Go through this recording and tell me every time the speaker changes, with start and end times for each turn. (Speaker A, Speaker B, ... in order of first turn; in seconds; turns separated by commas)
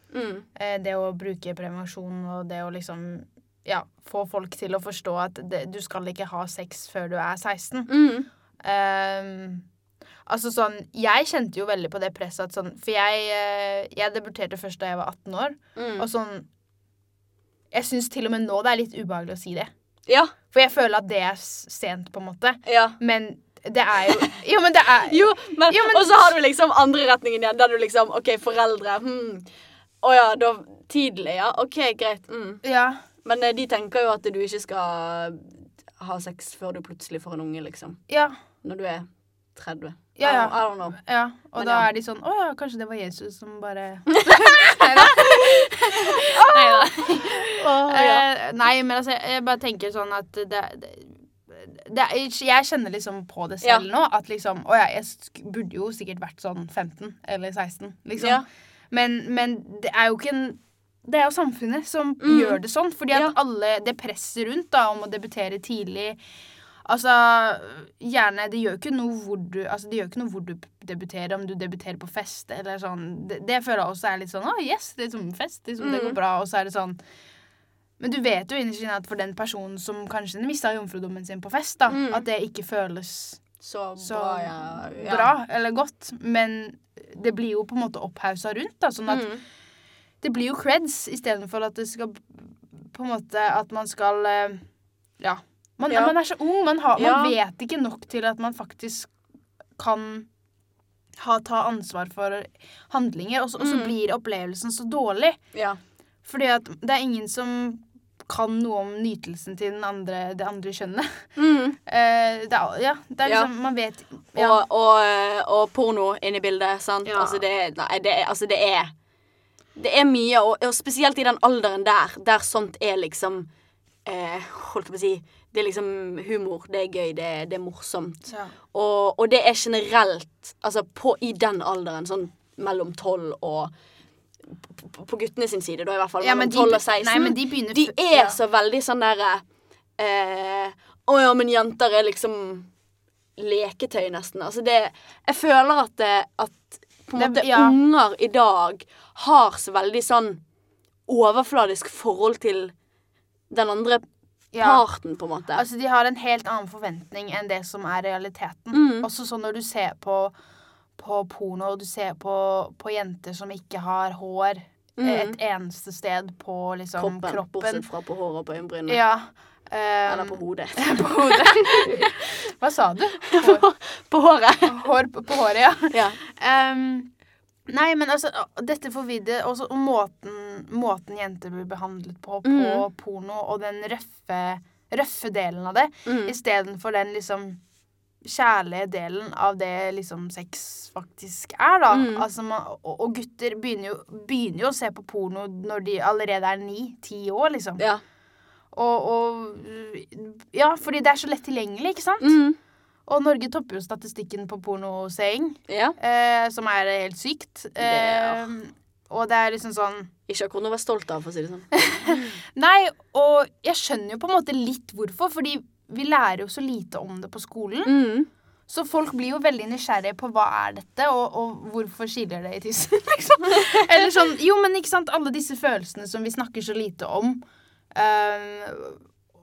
Speaker A: 0.1-0.5, Speaker B: 0.6-7.9, Speaker A: 7.9-8.3, Speaker B: 8.6-9.7, Speaker B: 10.3-16.5, Speaker A: 15.8-16.1, Speaker B: 17.7-19.7, Speaker A: 20.1-20.3, Speaker B: 20.5-26.4, Speaker A: 22.7-23.0, Speaker A: 25.1-29.5, Speaker A: 30.0-32.6, Speaker B: 32.6-33.0, Speaker A: 33.2-38.0, Speaker B: 38.1-38.4, Speaker A: 38.6-41.0, Speaker B: 40.2-66.2, Speaker A: 41.6-41.9, Speaker A: 44.1-48.2, Speaker A: 58.2-58.5, Speaker A: 62.2-62.6, Speaker B: 66.9-77.0, Speaker A: 75.8-76.2, Speaker B: 78.0-83.4, Speaker A: 81.9-82.3, Speaker A: 83.6-85.3, Speaker B: 84.0-89.3, Speaker A: 89.1-89.4, Speaker B: 90.2-94.6, Speaker B: 95.2-99.1, Speaker A: 95.9-96.2, Speaker A: 97.0-97.4, Speaker B: 99.8-100.3, Speaker B: 101.2-105.4, Speaker A: 103.6-103.9, Speaker A: 105.5-105.8, Speaker B: 106.2-111.3, Speaker A: 111.4-111.8, Speaker B: 111.8-114.6, Speaker A: 113.2-113.5, Speaker A: 114.3-118.9, Speaker B: 117.0-117.4, Speaker A: 119.8-123.5, Speaker A: 124.0-128.2, Speaker B: 128.3-128.5, Speaker A: 128.7-133.7, Speaker A: 134.5-139.4, Speaker B: 136.2-138.4, Speaker A: 140.0-142.7, Speaker A: 143.4-150.4, Speaker B: 147.2-147.8, Speaker A: 151.1-152.7, Speaker A: 153.5-154.1, Speaker B: 154.5-154.8, Speaker A: 154.6-155.6, Speaker B: 155.5-160.3, Speaker A: 158.7-159.1, Speaker B: 161.0-167.8, Speaker A: 165.0-165.4, Speaker A: 167.0-169.0, Speaker B: 168.9-173.7, Speaker A: 170.1-172.2, Speaker A: 173.3-174.9, Speaker B: 174.7-177.1, Speaker A: 175.9-176.2, Speaker B: 177.7-187.6, Speaker A: 182.4-182.8, Speaker A: 186.1-186.3, Speaker B: 188.2-197.8, Speaker A: 191.9-192.2, Speaker B: 198.7-202.4, Speaker A: 202.2-202.6, Speaker B: 203.1-210.1, Speaker A: 205.7-206.0, Speaker A: 207.8-208.5, Speaker A: 210.3-212.3, Speaker B: 211.8-217.9, Speaker A: 217.8-218.3, Speaker B: 218.7-227.4, Speaker B: 227.9-229.0